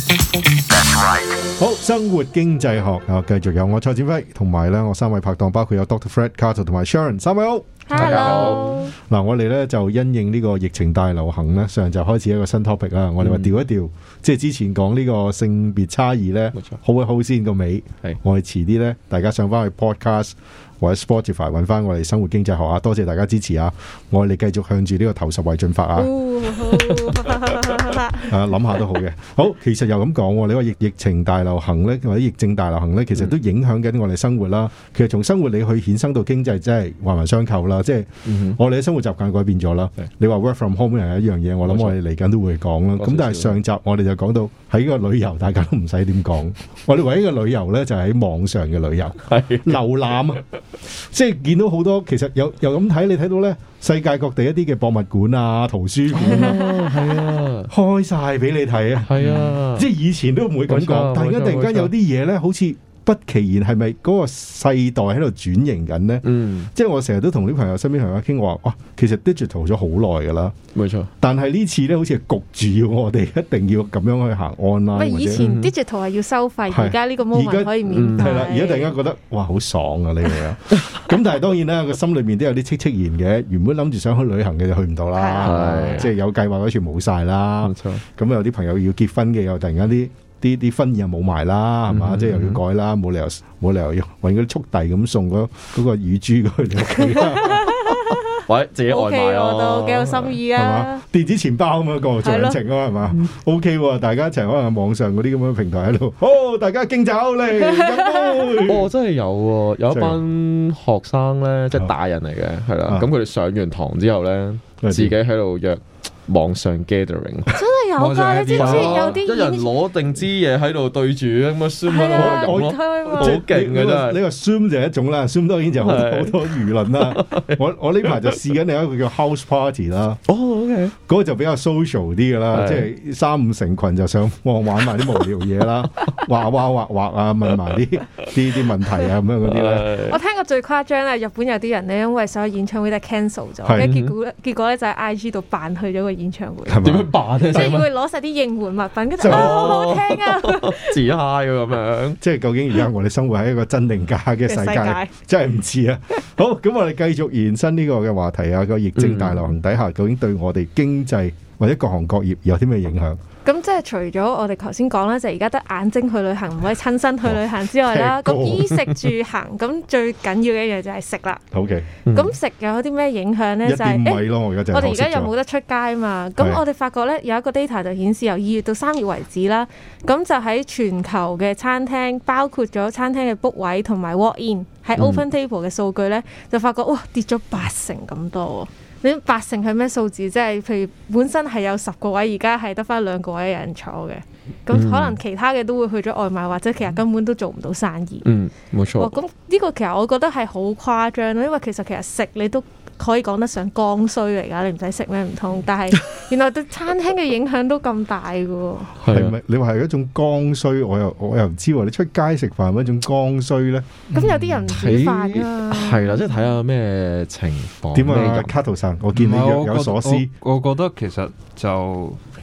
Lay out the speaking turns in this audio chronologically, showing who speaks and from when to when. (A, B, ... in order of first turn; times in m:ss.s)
0:01.6-0:26.1 A
0:07.9-0:08.9 B
0:07.9-0:08.8 C
0:13.2-0:13.6 C
0:26.0-0:28.3 B
0:28.3-0:56.8 A
0:38.3-0:38.6 C
0:41.6-0:42.0 C
0:43.0-0:43.6 C
0:49.2-0:49.8 C
0:56.1-0:57.7 C
0:57.7-1:10.6 A
0:59.1-0:59.9 C
1:00.7-1:01.9 C
1:06.2-1:06.7 C
1:10.8-1:11.1 C
1:11.2-1:15.5 A
1:14.9-1:19.0 B
1:15.4-1:15.7 C
1:16.7-1:38.2 A
1:17.9-1:18.3 C
1:20.7-1:21.0 C
1:25.2-1:26.1 B
1:25.4-1:26.1 C
1:27.6-1:28.0 C
1:31.9-1:32.6 C
1:37.2-1:41.0 B
1:38.5-1:40.4 C
1:40.6-1:48.9 A
1:42.2-1:42.6 B
1:47.6-1:48.5 B
1:48.7-1:57.6 C
1:49.9-1:50.2 A
1:54.8-1:55.2 A
1:57.5-1:59.7 B
1:58.0-1:59.0 D
1:58.5-2:04.2 C
2:01.9-2:03.4 B
2:02.0-2:10.2 A
2:05.8-2:08.1 C
2:10.3-2:10.9 C
2:11.1-2:20.0 A
2:12.5-2:12.9 C
2:18.7-2:20.2 C
2:20.1-2:26.8 B
2:23.6-2:23.9 A
2:23.8-2:24.1 C
2:26.6-2:27.1 A
2:26.8-2:27.9 C
2:27.4-2:31.0 B
2:29.2-2:29.8 A
2:29.2-2:32.2 C
2:32.2-2:43.2 A
2:34.5-2:35.1 B
2:39.0-2:39.5 C
2:43.4-2:51.4 B
2:47.2-2:48.8 A
2:51.5-2:51.9 A
2:52.1-2:52.3 C
2:52.1-3:18.3 B
2:53.6-2:55.3 A
3:05.0-3:05.2 C
3:14.7-3:15.2 C
3:18.2-3:19.2 C
3:19.0-3:28.9 B
3:29.0-3:29.3 C
3:29.1-3:33.9 A
3:34.1-3:34.7 D
3:34.1-3:36.4 B
3:34.6-3:38.6 C
3:37.9-3:40.3 A
3:39.1-3:42.2 D